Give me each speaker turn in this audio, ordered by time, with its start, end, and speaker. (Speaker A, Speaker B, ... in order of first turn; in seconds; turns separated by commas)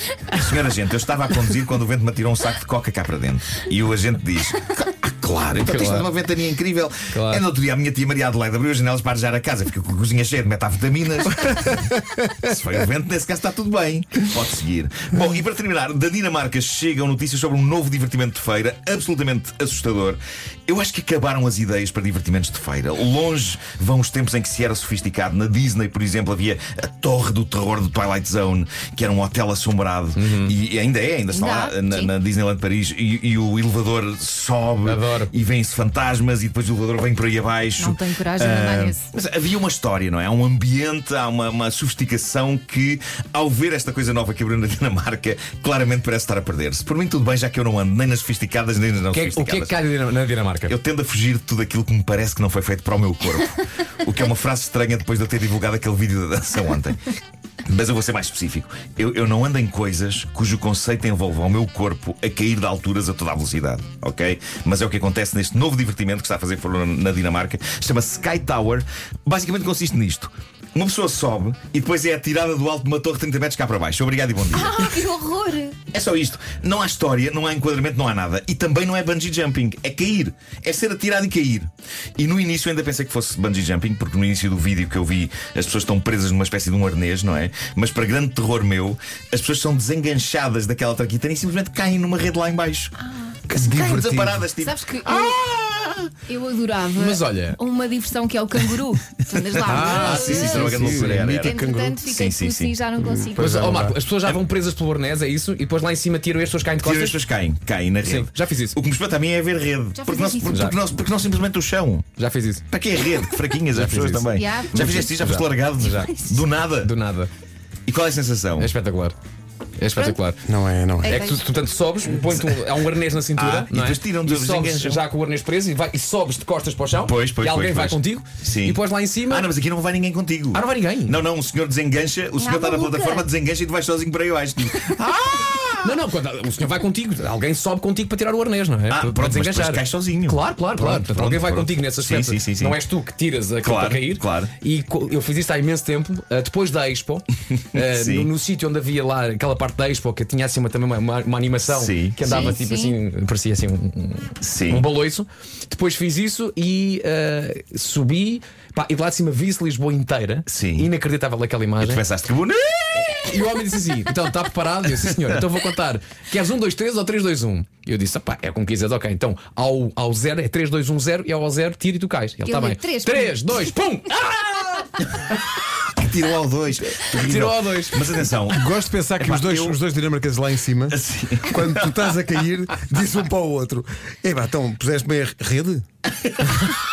Speaker A: 0.3-49.8, Speaker B: 5.5-6.1, Speaker B: 7.1-7.4, Speaker C: 11.5-11.8, Speaker B: 30.1-30.5, Speaker D: 31.3-32.1, Speaker B: 34.8-35.3, Speaker D: 37.8-39.1, Speaker B: 49.1-50.7, Speaker A: 50.6-57.1, Speaker A: 57.6-75.0, Speaker D: 74.5-75.8, Speaker A: 75.9-93.0, Speaker C: 93.5-94.5, Speaker A: 93.5-96.1, Speaker D: 94.6-95.4, Speaker D: 96.3-103.6, Speaker B: 97.0-97.6, Speaker A: 99.3-102.8, Speaker C: 99.6-102.0, Speaker B: 100.8-101.2, Speaker C: 103.0-104.0, Speaker B: 103.4-107.2, Speaker A: 106.8-112.1, Speaker B: 108.0-108.8, Speaker D: 110.0-110.7, Speaker B: 110.5-110.7, Speaker B: 112.2-112.6, Speaker A: 112.7-116.9, Speaker B: 113.7-116.1, Speaker D: 114.3-115.1, Speaker D: 115.9-116.4, Speaker B: 116.7-117.3, Speaker A: 117.9-118.7, Speaker B: 118.6-119.2, Speaker B: 119.8-120.4, Speaker C: 120.5-121.3, Speaker D: 121.0-121.4, Speaker B: 121.0-129.5, Speaker A: 122.3-122.6, Speaker A: 123.3-125.0, Speaker A: 127.0-136.0, Speaker B: 130.5-131.2, Speaker D: 132.4-133.3, Speaker B: 135.8-162.0, Speaker A: 138.9-142.8, Speaker A: 143.6-144.5, Speaker A: 147.7-148.3, Speaker A: 151.6-152.5, Speaker D: 152.2-152.9, Speaker A: 154.4-154.8, Speaker A: 160.5-160.9, Speaker A: 161.8-163.4, Speaker B: 163.0-175.0, Speaker D: 172.4-173.7, Speaker A: 175.9-179.8, Speaker B: 177.1-178.1, Speaker C: 177.1-177.4, Speaker C: 178.5-185.8, Speaker A: 180.9-182.2, Speaker A: 186.5-186.7